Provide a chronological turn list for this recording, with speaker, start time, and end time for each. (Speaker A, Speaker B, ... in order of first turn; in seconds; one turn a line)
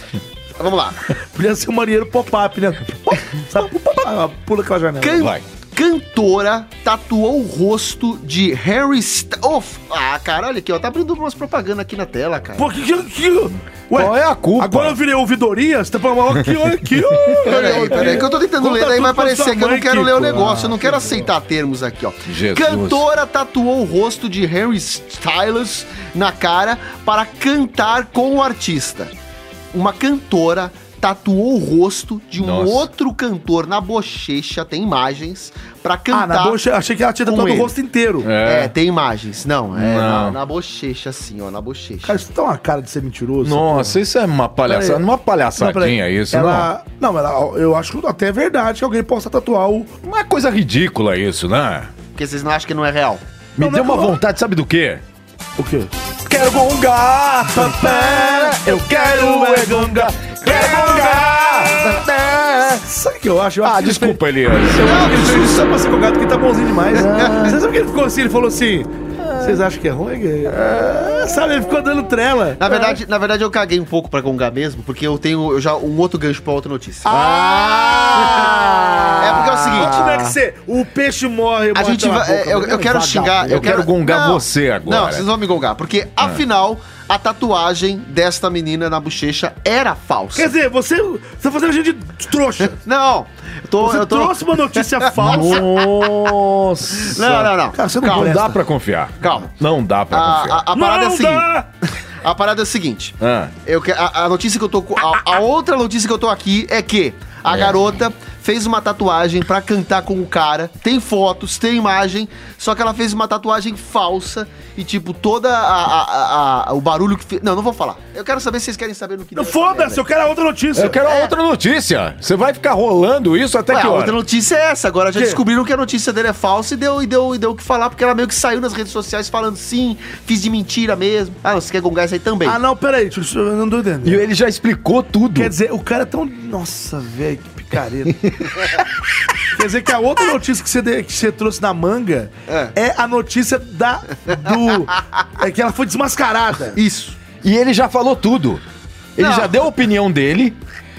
Speaker A: 0.6-1.0
Speaker B: 1.3-5.2
Speaker A: 3.1-3.6
Speaker A: 5.0-12.7
Speaker C: 5.2-5.4
Speaker B: 12.6-21.3
Speaker C: 13.9-15.0
Speaker C: 16.5-18.3
Speaker A: 17.4-29.1
Speaker C: 22.3-23.0
Speaker A: 29.7-36.6
Speaker C: 32.4-32.9
Speaker B: 36.1-38.3
Speaker A: 37.2-37.7
Speaker C: 38.2-38.7
Speaker A: 38.4-42.2
Speaker C: 39.7-40.4
Speaker B: 42.0-44.0
Speaker C: 43.4-46.7
Speaker B: 44.6-45.0
Speaker B: 45.6-49.9
Speaker C: 50.0-51.9
Speaker A: 52.1-53.2
Speaker C: 53.5-55.0
Speaker B: 53.6-54.2
Speaker B: 55.6-55.9
Speaker C: 56.2-62.8
Speaker B: 57.5-62.0
Speaker B: 62.8-64.2
Speaker C: 63.6-65.5
Speaker B: 64.7-73.0
Speaker A: 64.8-65.7
Speaker A: 66.9-67.5
Speaker C: 69.2-69.6
Speaker C: 70.6-71.2
Speaker A: 72.6-77.1
Speaker B: 77.0-83.9
Speaker C: 77.1-79.9
Speaker A: 78.1-78.5
Speaker A: 79.2-80.3
Speaker A: 81.7-90.5
Speaker C: 83.5-85.3
Speaker B: 90.3-92.8
Speaker A: 92.8-96.1
Speaker B: 93.8-95.6
Speaker C: 95.2-100.6
Speaker A: 97.0-98.3
Speaker B: 97.7-98.6
Speaker A: 99.2-99.5
Speaker A: 100.1-101.5
Speaker B: 100.7-101.7
Speaker A: 102.2-120.0
Speaker C: 103.2-103.5
Speaker B: 119.3-121.0
Speaker C: 120.8-124.2
Speaker A: 121.0-121.3
Speaker A: 123.7-132.6
Speaker B: 125.1-125.4
Speaker B: 132.4-134.2
Speaker C: 134.0-135.5
Speaker B: 135.3-138.6
Speaker B: 139.5-146.8
Speaker A: 142.5-142.7
Speaker A: 146.8-147.2
Speaker C: 147.4-148.6
Speaker C: 149.2-150.6
Speaker A: 149.2-149.6